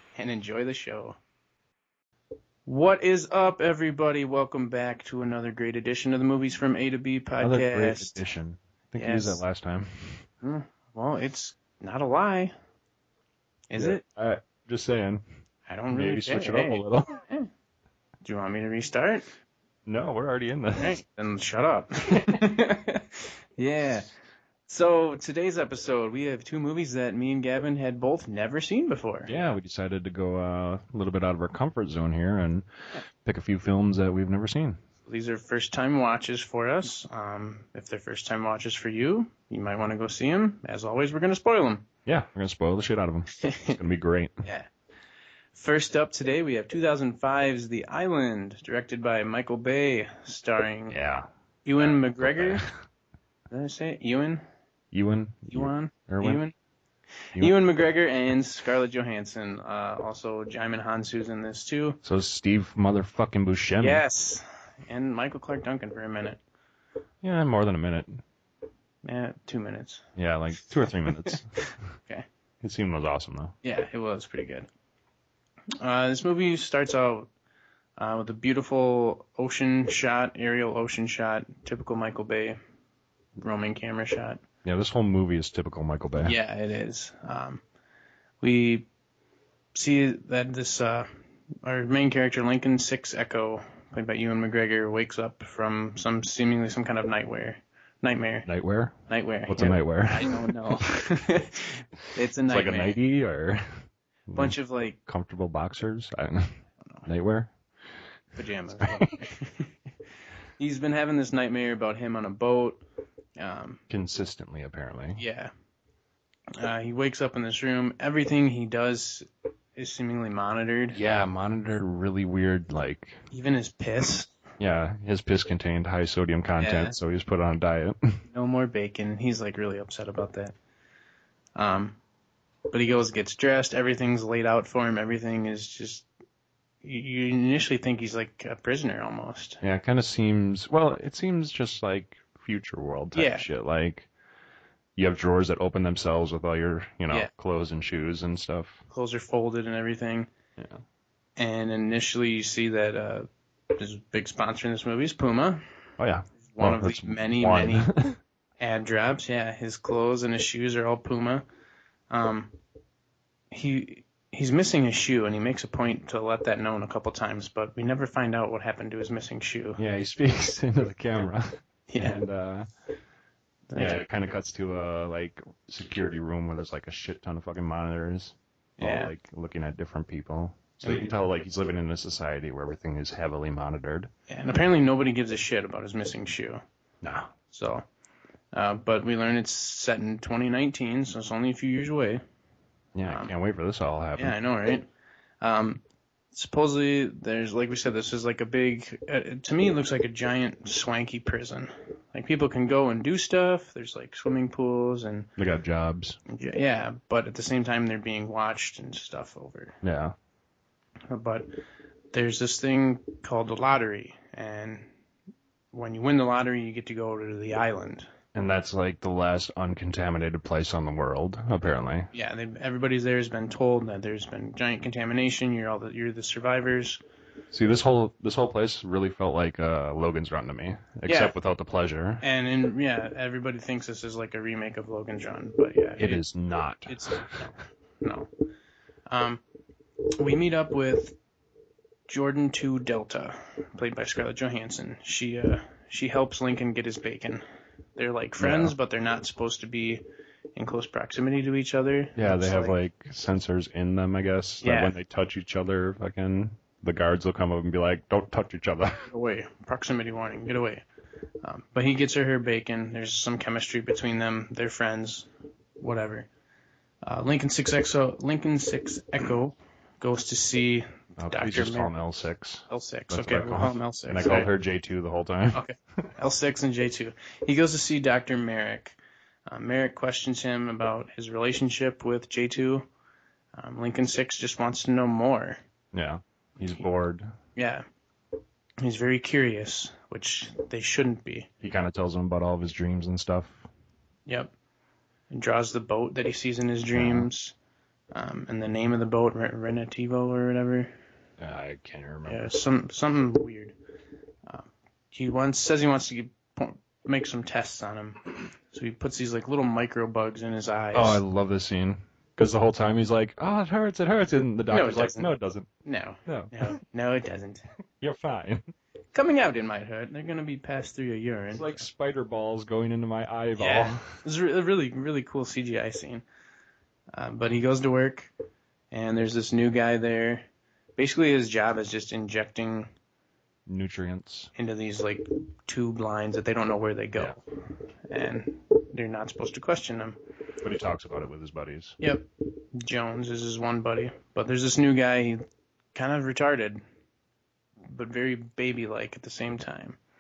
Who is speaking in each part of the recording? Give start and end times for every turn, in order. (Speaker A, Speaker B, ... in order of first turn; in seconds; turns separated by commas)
Speaker A: 0.1-1.2, Speaker A: 2.7-8.2, Speaker B: 7.4-10.2, Speaker A: 9.0-9.4, Speaker A: 10.4-12.5, Speaker A: 13.7-14.0, Speaker B: 13.8-15.2, Speaker A: 15.7-17.5, Speaker B: 15.9-17.2, Speaker A: 18.2-19.3, Speaker B: 19.9-21.0, Speaker A: 20.8-24.1, Speaker A: 24.7-29.3, Speaker B: 29.3-32.7, Speaker B: 33.2-34.8, Speaker A: 35.1-41.9, Speaker B: 42.1-44.4, Speaker A: 43.4-43.8, Speaker A: 44.4-44.7, Speaker A: 45.5-51.0, Speaker B: 50.9-51.3, Speaker A: 51.6-52.7, Speaker B: 51.8-52.7, Speaker A: 53.5-54.4, Speaker B: 54.9-56.4, Speaker A: 55.5-56.5, Speaker A: 57.4-62.0, Speaker B: 62.0-64.0, Speaker A: 63.8-66.4, Speaker B: 67.2-68.2, Speaker A: 69.0-70.1, Speaker B: 70.2-71.5, Speaker A: 71.1-72.3, Speaker B: 72.6-73.5, Speaker A: 73.6-74.7, Speaker A: 75.8-77.3, Speaker A: 78.0-82.6, Speaker A: 83.4-84.4, Speaker B: 84.7-86.4, Speaker A: 86.2-87.6, Speaker A: 88.4-88.9, Speaker A: 89.7-91.1, Speaker A: 91.6-98.5, Speaker B: 98.5-99.0, Speaker A: 99.1-103.0, Speaker B: 99.5-100.7, Speaker B: 102.5-104.5, Speaker A: 104.3-105.0, Speaker B: 105.1-107.5, Speaker A: 108.4-109.7, Speaker B: 108.8-109.2, Speaker A: 110.6-112.8, Speaker A: 113.4-113.8, Speaker B: 113.9-115.2, Speaker A: 115.2-115.5, Speaker A: 116.6-121.0, Speaker B: 120.9-123.2, Speaker A: 123.3-124.3, Speaker B: 124.6-128.1, Speaker A: 126.6-127.0, Speaker A: 128.3-130.6, Speaker A: 131.6-132.0, Speaker A: 132.7-136.1, Speaker A: 136.8-139.6, Speaker B: 139.6-144.1, Speaker A: 143.1-143.5, Speaker B: 145.0-148.8, Speaker A: 148.9-150.3, Speaker A: 151.4-155.7, Speaker B: 156.0-158.2, Speaker A: 156.5-157.9, Speaker A: 158.6-161.4, Speaker A: 162.1-162.6, Speaker A: 163.5-169.8, Speaker B: 169.8-172.7, Speaker A: 171.9-172.2, Speaker A: 173.7-174.0, Speaker B: 173.7-184.1, Speaker A: 178.8-179.1, Speaker A: 180.8-181.1, Speaker A: 184.3-186.6, Speaker B: 187.0-187.3, Speaker A: 187.5-187.9, Speaker A: 188.5-192.2, Speaker B: 192.9-194.4, Speaker A: 193.1-193.3, Speaker A: 194.2-194.9, Speaker A: 195.4-195.8, Speaker A: 196.3-205.3, Speaker B: 205.4-206.2, Speaker A: 206.3-209.8, Speaker B: 209.8-210.2, Speaker A: 211.1-211.6, Speaker A: 212.1-214.9, Speaker A: 215.7-218.1, Speaker B: 218.3-222.1, Speaker A: 222.1-227.0, Speaker B: 227.5-232.2, Speaker A: 231.1-231.3, Speaker A: 232.2-236.2, Speaker B: 236.0-237.5, Speaker A: 236.9-238.3, Speaker A: 239.1-239.4, Speaker A: 240.2-241.2, Speaker A: 242.1-247.4, Speaker A: 248.0-250.0, Speaker B: 248.4-248.7, Speaker A: 250.6-252.8, Speaker B: 252.2-259.1, Speaker A: 254.6-254.9, Speaker A: 259.1-260.9, Speaker A: 261.4-265.3, Speaker A: 265.8-266.3, Speaker A: 267.0-271.9, Speaker B: 271.2-275.6, Speaker A: 272.7-274.5, Speaker A: 275.5-282.9, Speaker A: 283.6-285.6, Speaker B: 285.9-287.3, Speaker A: 287.6-287.9, Speaker A: 288.8-291.5, Speaker B: 291.6-293.6, Speaker A: 294.3-294.5, Speaker A: 295.3-297.6, Speaker B: 297.0-297.3, Speaker A: 298.1-300.9, Speaker B: 301.4-302.4, Speaker A: 302.3-303.8, Speaker A: 304.5-311.2, Speaker B: 310.9-315.7, Speaker A: 314.7-317.6, Speaker B: 316.3-316.8, Speaker B: 318.0-318.6, Speaker A: 319.1-321.9, Speaker B: 321.5-324.1, Speaker A: 323.6-326.2, Speaker A: 327.1-328.3, Speaker A: 328.9-330.4, Speaker A: 331.0-332.9, Speaker B: 333.7-334.5, Speaker A: 334.6-337.4, Speaker A: 338.1-340.2, Speaker B: 340.6-342.0, Speaker A: 342.0-345.4, Speaker A: 345.9-346.8, Speaker A: 347.9-350.0